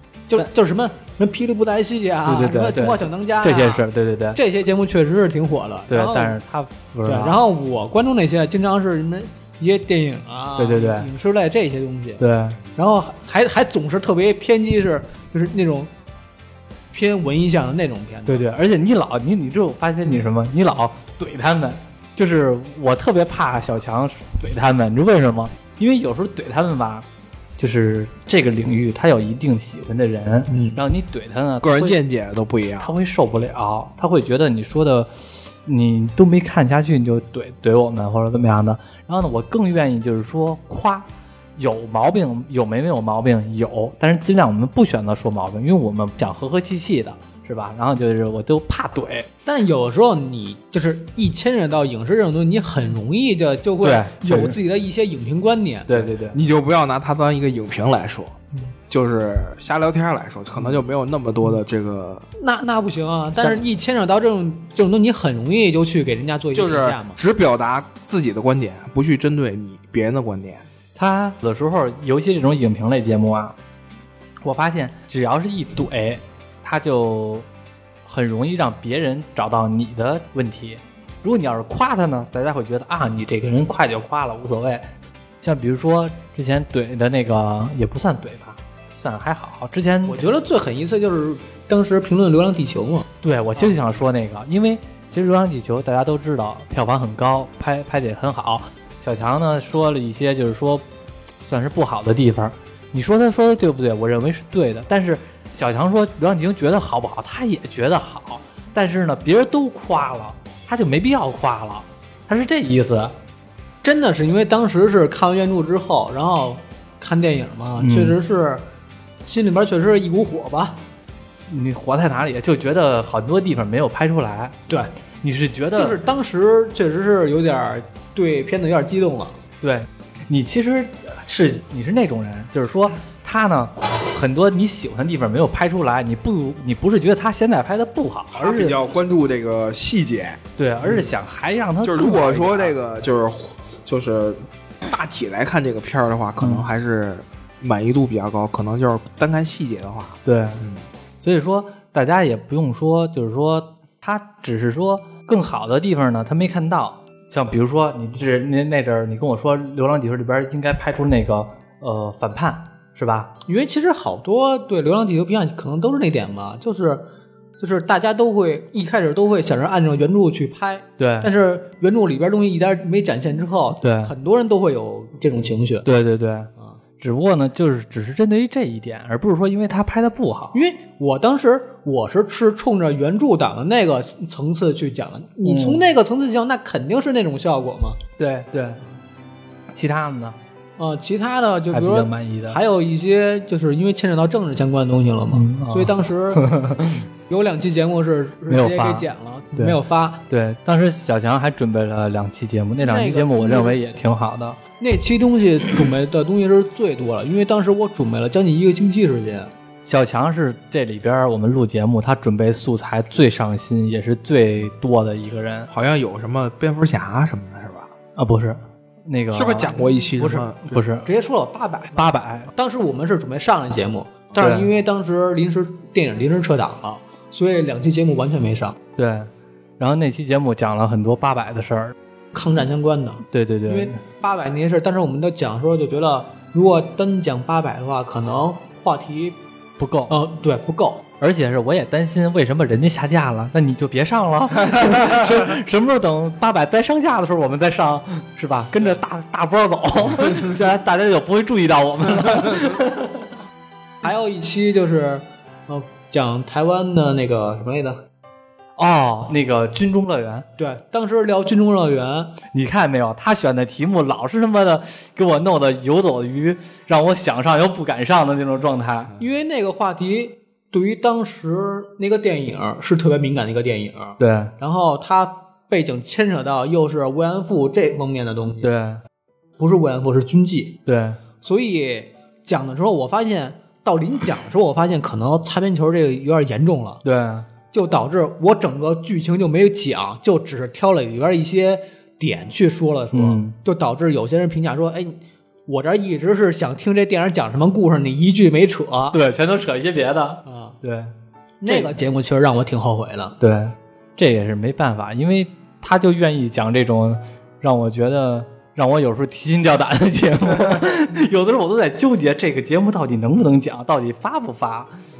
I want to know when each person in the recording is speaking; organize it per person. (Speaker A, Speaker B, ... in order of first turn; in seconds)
Speaker A: 0.3-6.3, 7.0-12.2, 12.7-15.9, 16.9-18.4, 30.5-30.8, 49.5-56.1, 62.4-67.2, 90.0-93.1, 113.8-118.7, 119.2-120.8, 125.7-129.3, 163.4-167.1, 167.6-175.9, 180.5-188.0, 190.8-196.4, 197.3-200.2, 202.8-203.8, 204.8-209.5, 221.0-228.8, 232.3-239.4, 240.1-241.0, 254.0-258.0, 260.6-262.4, 269.2-278.7, 279.6-280.8, 281.4-287.0, 287.7-299.2, 300.4-300.8, 301.6-303.4
Speaker B: 2.2-4.4, 5.9-7.4, 10.6-11.1, 12.2-12.6, 18.2-27.1, 27.6-32.0, 32.8-49.3, 53.8-54.6, 55.9-56.4, 63.4-63.6, 70.9-73.5, 74.4-77.5, 78.0-84.9, 85.4-90.2, 93.2-100.8, 101.4-113.1, 117.8-118.2, 121.5-124.6, 125.2-126.0, 129.6-138.8, 140.6-142.8, 146.4-146.7, 150.2-150.7, 151.2-163.3, 171.0-171.3, 173.8-174.1, 175.8-180.6, 185.4-185.8, 188.2-188.8, 189.7-190.4, 191.7-192.6, 195.3-197.1, 198.5-204.6, 209.8-215.7, 218.2-221.1, 221.9-222.5, 224.4-224.7, 228.9-231.9, 233.3-234.0, 239.8-240.2, 241.2-253.3, 258.8-260.5, 262.5-269.1, 274.2-274.5, 278.6-279.0, 280.9-281.2, 287.0-287.5, 293.1-293.5, 299.1-301.1, 301.6-301.9, 303.4-314.9
Speaker C: 31.6-32.9, 56.3-58.4, 58.9-62.3, 66.5-70.7, 138.3-140.4, 141.8-150.8, 215.7-217.9, 219.3-220.8